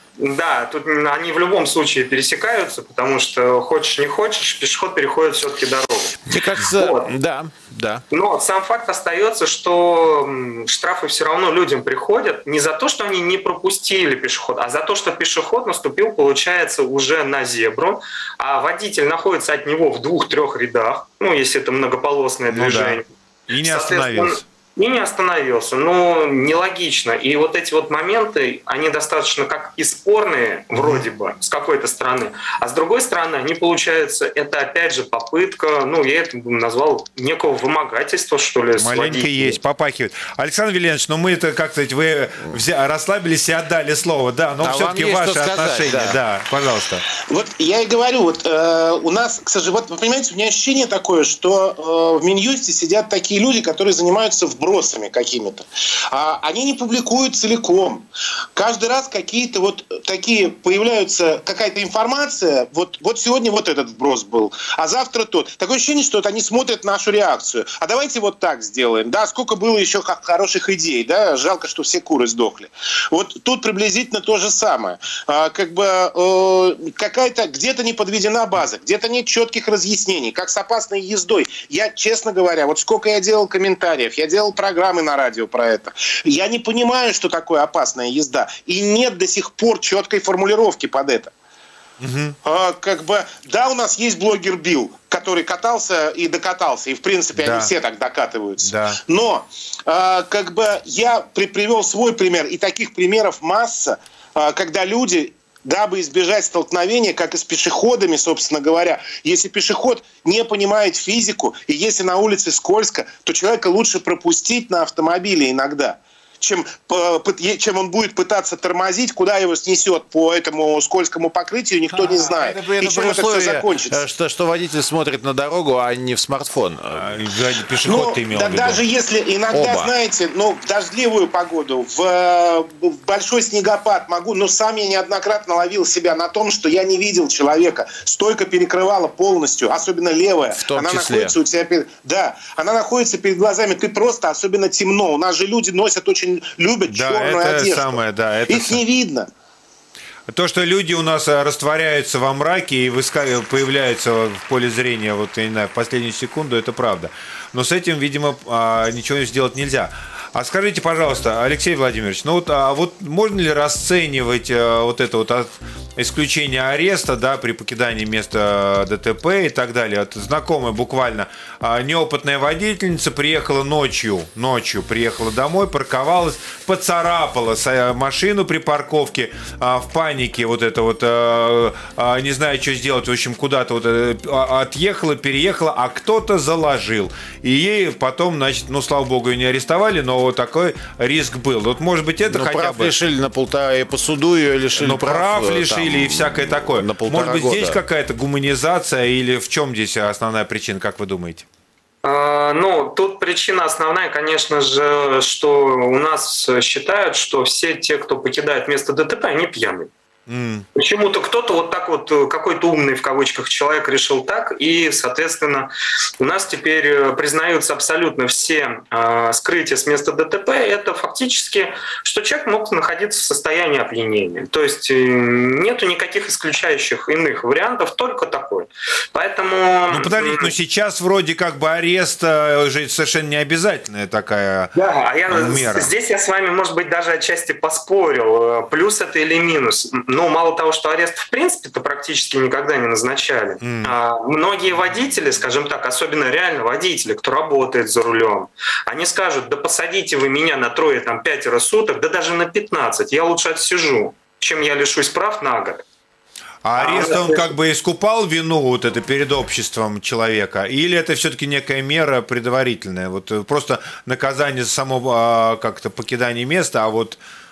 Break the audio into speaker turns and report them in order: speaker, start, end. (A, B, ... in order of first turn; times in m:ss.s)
0:00.2-0:07.1 A
0:06.2-0:08.0 B
0:08.1-0:23.0 A
0:22.5-0:24.4 C
0:23.6-0:39.6 A
0:30.7-0:31.0 C
0:38.8-0:47.0 C
0:44.6-0:46.2 B
0:47.3-1:31.3 D
1:32.0-1:32.4 C
1:32.4-2:04.0 D
1:37.4-1:37.7 C
1:38.6-1:39.0 C
2:01.9-2:07.2 B
2:06.9-2:08.8 C
2:07.8-2:29.3 D
2:09.5-2:09.9 B
2:20.5-2:21.3 B
2:26.9-2:28.8 C
2:30.3-3:12.9 C
3:12.3-3:17.8 B
3:14.8-3:21.4 C
3:22.0-3:29.9 A
3:30.3-3:30.6 C
3:30.8-3:50.5 A
3:49.9-3:54.7 C
3:54.7-4:15.8 A
3:55.3-3:55.9 C
4:03.6-4:03.9 C
4:16.6-4:27.2 C
4:16.8-4:17.5 A